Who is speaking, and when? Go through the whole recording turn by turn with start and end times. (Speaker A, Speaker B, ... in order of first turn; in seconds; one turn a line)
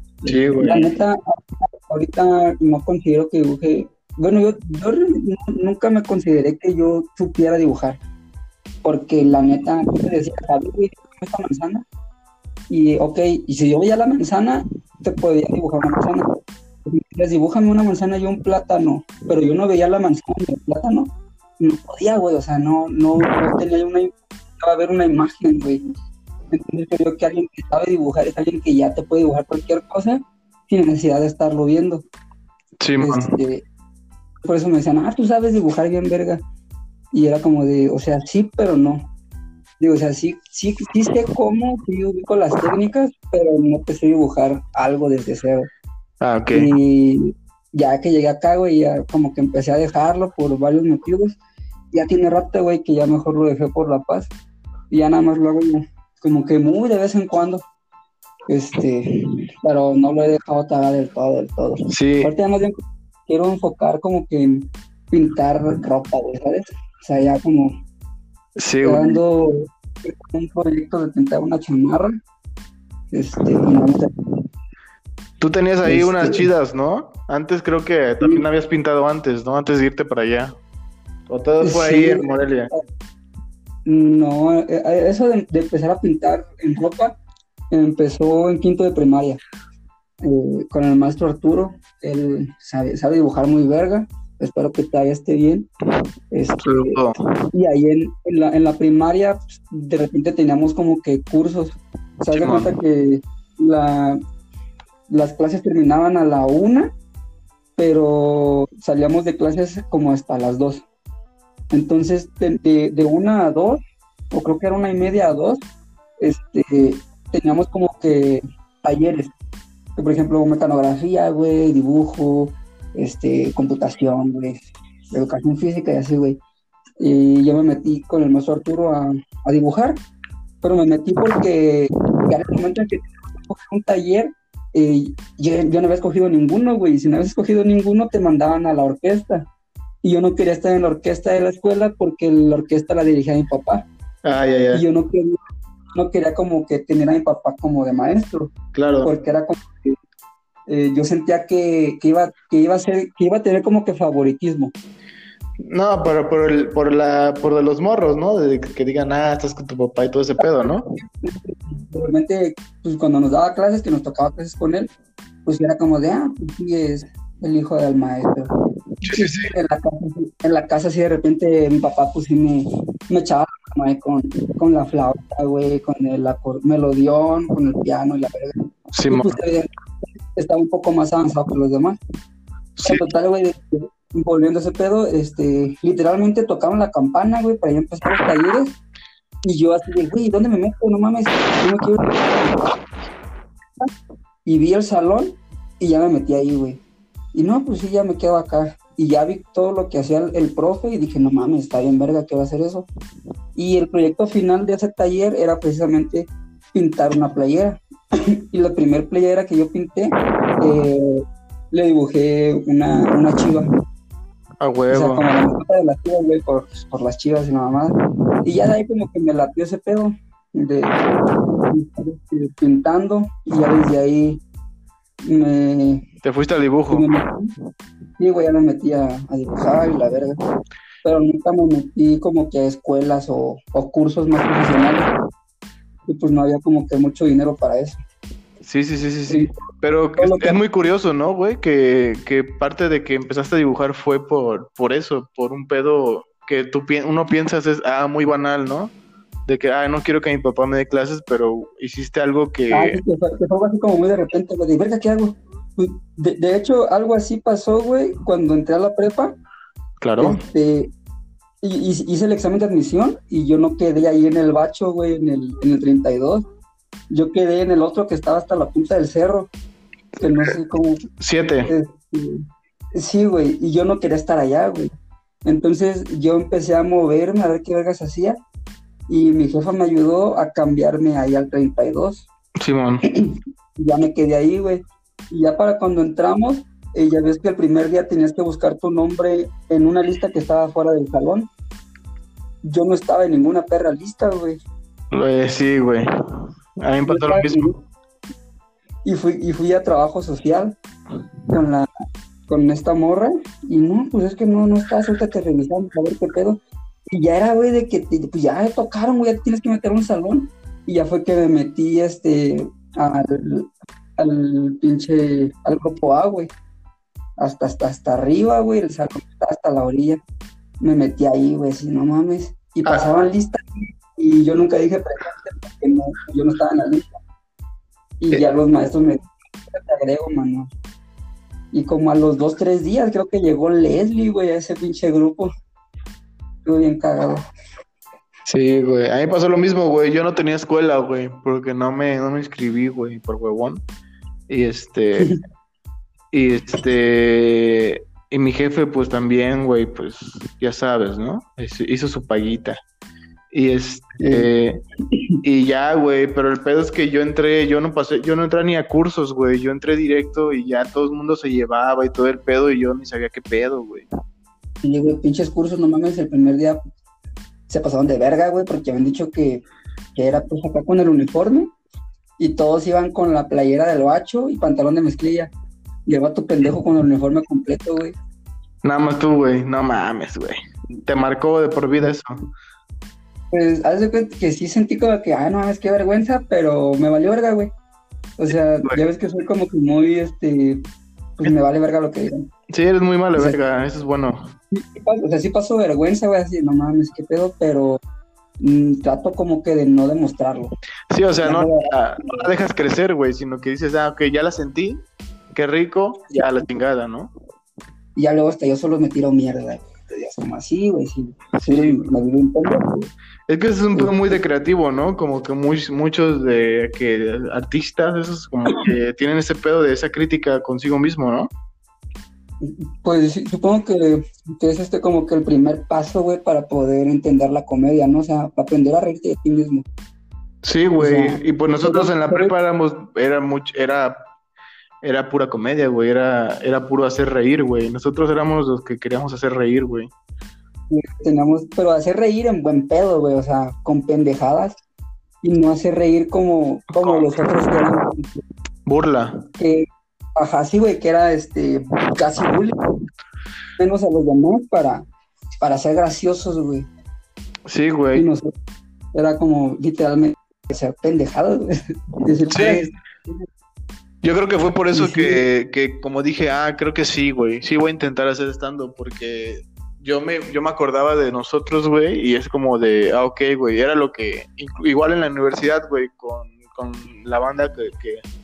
Speaker A: 0.2-8.0
Speaker B: 0.2-0.9
Speaker A: 8.8-11.8
Speaker A: 12.7-16.3
Speaker A: 16.8-25.8
Speaker A: 26.5-32.0
Speaker B: 32.8-33.3
Speaker A: 33.0-33.6
Speaker A: 34.4-36.4
Speaker A: 37.1-39.0
Speaker A: 39.8-45.7
Speaker B: 46.2-46.7
Speaker A: 46.5-51.4
Speaker A: 51.9-54.3
Speaker A: 54.9-57.6
Speaker A: 58.5-67.7
Speaker B: 61.9-62.3
Speaker B: 68.6-69.2
Speaker A: 68.8-72.2
Speaker A: 73.1-74.1
Speaker B: 75.4-80.5
Speaker A: 75.8-76.5
Speaker A: 78.2-78.4
Speaker B: 81.3-82.7
Speaker A: 81.6-82.8
Speaker A: 83.8-87.2
Speaker A: 87.7-89.4
Speaker A: 90.2-95.7
Speaker A: 96.3-97.0
Speaker B: 96.6-97.2
Speaker A: 97.5-104.2
Speaker B: 102.3-102.8
Speaker A: 105.1-106.9
Speaker A: 107.8-110.8
Speaker A: 111.7-113.8
Speaker A: 114.3-115.6
Speaker A: 116.2-119.3
Speaker A: 120.0-126.4
Speaker A: 127.0-130.0
Speaker A: 130.6-139.4
Speaker A: 140.0-143.9
Speaker B: 144.2-144.8
Speaker A: 144.7-145.4
Speaker A: 145.9-149.9
Speaker B: 148.7-149.1
Speaker A: 150.7-154.7
Speaker B: 155.6-161.0
Speaker A: 160.4-164.9
Speaker A: 165.4-168.5
Speaker B: 169.0-169.5
Speaker A: 169.1-179.7
Speaker B: 178.9-179.3
Speaker A: 180.3-182.0
Speaker B: 182.8-183.0
Speaker A: 182.8-188.8
Speaker A: 189.4-192.6
Speaker A: 194.4-196.8
Speaker A: 197.3-202.9
Speaker A: 203.5-213.7
Speaker B: 214.6-215.4
Speaker A: 214.9-224.4
Speaker A: 225.2-226.0
Speaker B: 226.2-227.2
Speaker A: 226.9-227.5
Speaker A: 228.2-230.4
Speaker A: 231.0-235.1
Speaker A: 236.1-238.0
Speaker B: 238.6-248.9
Speaker A: 239.3-239.5
Speaker A: 240.2-240.6
Speaker B: 249.4-253.0
Speaker A: 252.7-259.3
Speaker B: 260.0-260.4
Speaker A: 260.2-260.9
Speaker A: 261.6-266.4
Speaker A: 267.1-269.5
Speaker A: 270.2-271.0
Speaker B: 271.2-271.7
Speaker A: 271.6-274.9
Speaker A: 275.4-278.4
Speaker A: 279.1-282.3
Speaker B: 282.6-283.0
Speaker A: 283.1-291.5
Speaker A: 292.6-294.6
Speaker B: 295.1-297.8
Speaker A: 297.0-297.7
Speaker A: 299.0-300.8
Speaker A: 301.5-301.9
Speaker A: 302.5-316.5
Speaker A: 317.4-320.2
Speaker A: 320.8-327.1
Speaker A: 328.2-330.7
Speaker A: 331.7-335.5
Speaker A: 336.6-337.4
Speaker B: 338.4-343.8
Speaker B: 344.5-345.3
Speaker B: 346.3-352.8
Speaker B: 353.5-354.8
Speaker A: 354.2-354.5
Speaker B: 355.4-364.1
Speaker A: 364.8-366.8
Speaker A: 367.7-371.7
Speaker A: 372.4-375.5
Speaker A: 376.1-378.1
Speaker B: 378.8-382.5
Speaker A: 383.5-387.7
Speaker A: 388.4-390.8
Speaker A: 391.4-392.5
Speaker B: 392.7-394.5
Speaker A: 394.7-398.0
Speaker A: 398.6-400.7
Speaker B: 401.1-407.3
Speaker A: 401.4-402.5
Speaker A: 406.3-406.6
Speaker A: 408.1-413.1
Speaker B: 411.6-412.1
Speaker B: 413.5-421.5
Speaker A: 413.9-414.4
Speaker A: 422.6-429.8
Speaker B: 430.6-434.2
Speaker A: 431.0-432.5
Speaker B: 435.0-440.1
Speaker A: 440.9-444.8
Speaker A: 445.4-448.4
Speaker B: 447.0-447.9
Speaker B: 448.9-449.4
Speaker A: 449.6-452.8
Speaker A: 453.8-455.1
Speaker A: 455.6-456.9
Speaker B: 457.7-458.2
Speaker A: 458.1-458.5
Speaker A: 459.1-463.4
Speaker B: 462.5-462.9
Speaker B: 464.2-478.2
Speaker A: 464.9-465.4